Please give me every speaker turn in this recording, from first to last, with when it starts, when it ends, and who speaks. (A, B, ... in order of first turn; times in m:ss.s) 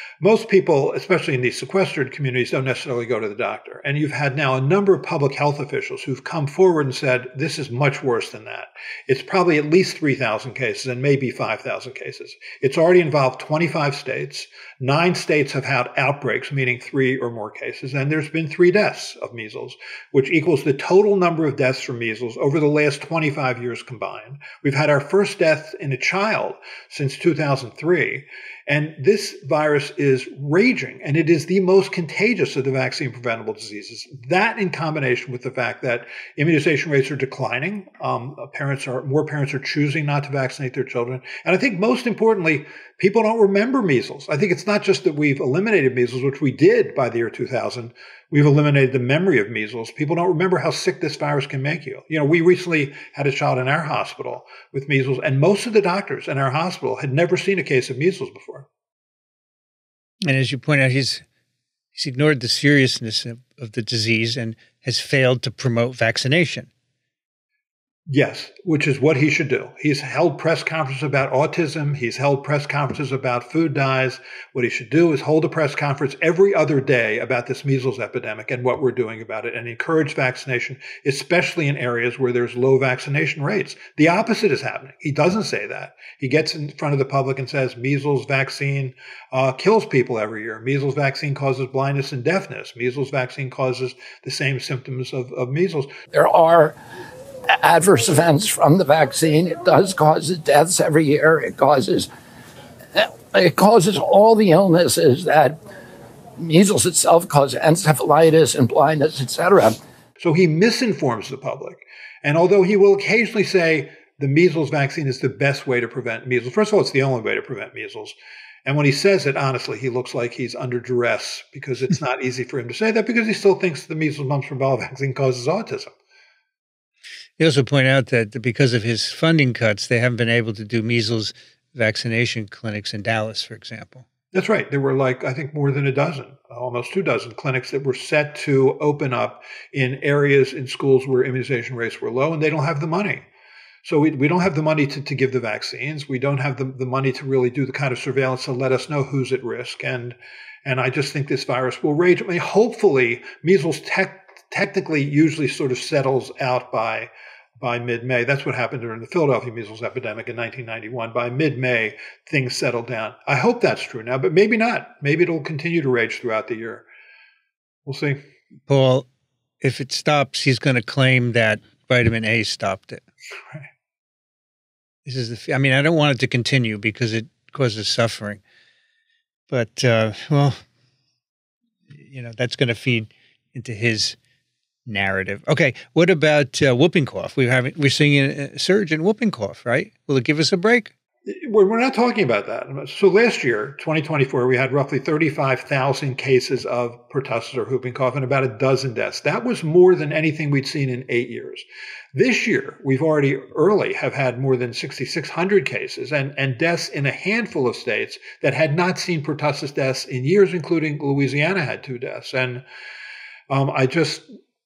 0:00.2-0:58.7 A
1:00.3-1:01.2 B
1:01.9-1:06.7 B
1:08.1-1:35.9 A
1:36.1-1:36.8 C
1:37.5-1:42.1 C
1:42.9-1:45.6 C
1:46.4-1:49.8 C
1:50.2-2:05.9 A
2:07.4-2:14.0 B
2:14.3-2:23.2 A
2:23.8-2:46.9 A
2:47.8-2:48.2 A
2:48.7-2:49.1 B
2:49.6-2:53.0 B
2:55.0-2:58.4 B
2:59.5-3:00.6 B
3:02.0-3:04.2 B
3:04.9-3:10.9 B
3:11.2-3:32.6 A
3:33.5-3:34.3 A